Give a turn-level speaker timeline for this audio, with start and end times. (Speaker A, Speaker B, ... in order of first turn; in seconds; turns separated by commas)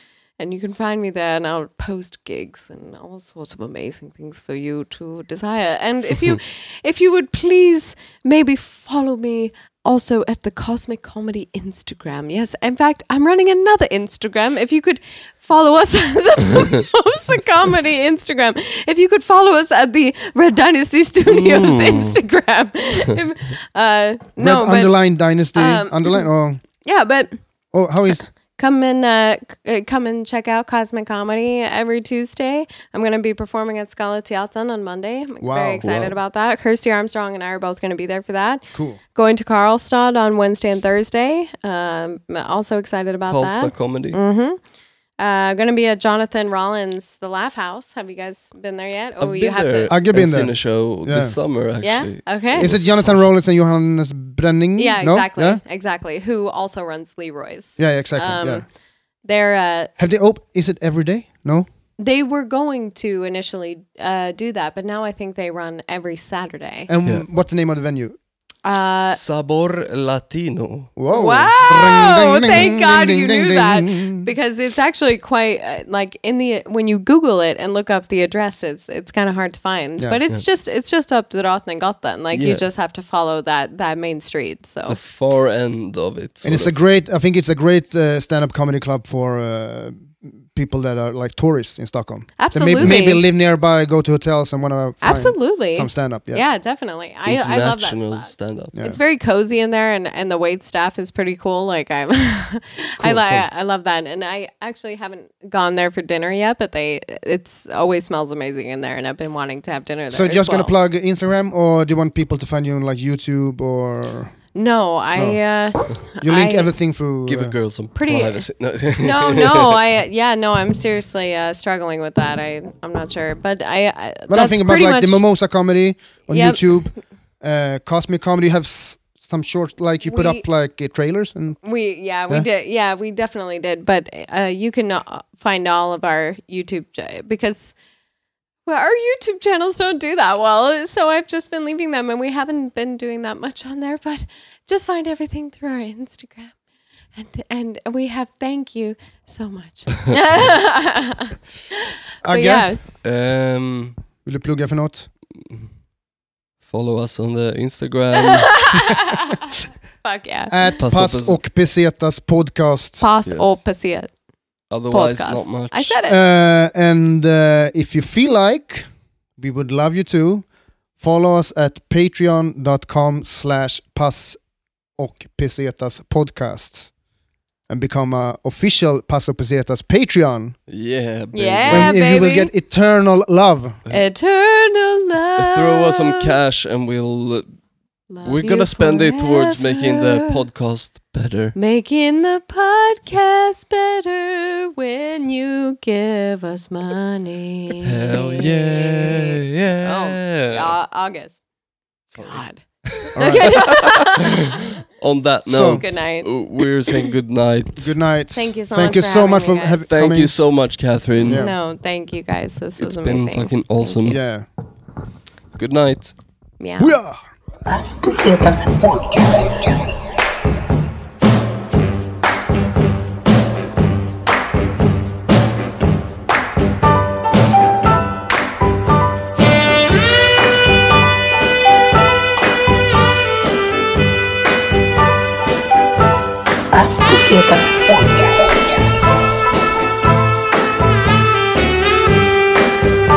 Speaker A: 0.4-25.0, Speaker B: 21.2-22.2, Speaker C: 24.4-26.6, Speaker A: 25.6-26.3, Speaker A: 26.8-27.4, Speaker C: 27.7-28.2, Speaker A: 28.2-44.6, Speaker C: 35.4-35.9, Speaker B: 35.8-36.1, Speaker C: 38.7-39.0, Speaker B: 43.3-44.2, Speaker A: 45.2-49.9, Speaker B: 49.2-53.3, Speaker C: 49.9-51.4, Speaker A: 51.8-52.8, Speaker C: 52.6-55.6, Speaker A: 54.8-58.7, Speaker C: 57.8-58.6, Speaker A: 59.2-59.9, Speaker C: 60.0-61.7, Speaker A: 62.0-66.9, Speaker C: 66.9-68.2, Speaker A: 68.6-69.2, Speaker B: 69.0-70.9, Speaker C: 71.0-74.3, Speaker A: 71.1-85.0, Speaker B: 82.3-82.6, Speaker B: 84.9-86.8, Speaker C: 86.4-96.4, Speaker A: 92.4-93.2, Speaker A: 95.0-110.7, Speaker B: 97.3-98.8, Speaker C: 103.0-103.5, Speaker C: 110.1-114.3, Speaker A: 114.5-116.7, Speaker C: 116.2-117.6, Speaker B: 117.3-119.8, Speaker A: 118.0-118.4, Speaker A: 119.0-125.2, Speaker C: 124.3-131.6, Speaker A: 126.3-126.6, Speaker A: 130.1-130.4, Speaker A: 131.6-137.7, Speaker A: 138.7-146.6, Speaker A: 147.2-152.8, Speaker B: 150.1-150.4, Speaker C: 152.2-152.7, Speaker B: 153.0-154.0, Speaker C: 154.2-155.1, Speaker B: 156.6-158.5, Speaker A: 158.1-160.8, Speaker C: 160.5-163.1, Speaker B: 160.8-161.4, Speaker A: 163.0-164.1, Speaker B: 163.2-163.6, Speaker B: 164.7-166.0, Speaker A: 164.9-166.2, Speaker C: 166.1-168.9, Speaker C: 169.4-170.5, Speaker C: 171.0-174.4, Speaker C: 175.0-176.9, Speaker C: 177.7-180.6, Speaker B: 180.7-182.0, Speaker A: 181.3-182.5, Speaker C: 181.7-183.8, Speaker A: 183.9-186.3, Speaker B: 185.4-187.5, Speaker A: 188.1-190.4, Speaker B: 188.2-191.6, Speaker A: 191.6-201.4, Speaker B: 197.8-200.7, Speaker A: 202.1-204.7, Speaker B: 203.0-207.9, Speaker C: 203.2-203.6, Speaker C: 205.5-205.8, Speaker A: 205.8-207.1, Speaker C: 207.8-210.3, Speaker A: 208.3-209.8, Speaker B: 209.9-211.5, Speaker C: 211.2-211.6, Speaker A: 211.3-214.2, Speaker B: 212.8-214.2, Speaker C: 214.1-214.5, Speaker B: 215.6-216.1, Speaker A: 216.6-216.9, Speaker C: 216.8-217.2, Speaker D: 217.7-220.1, Speaker D: 236.7-239.2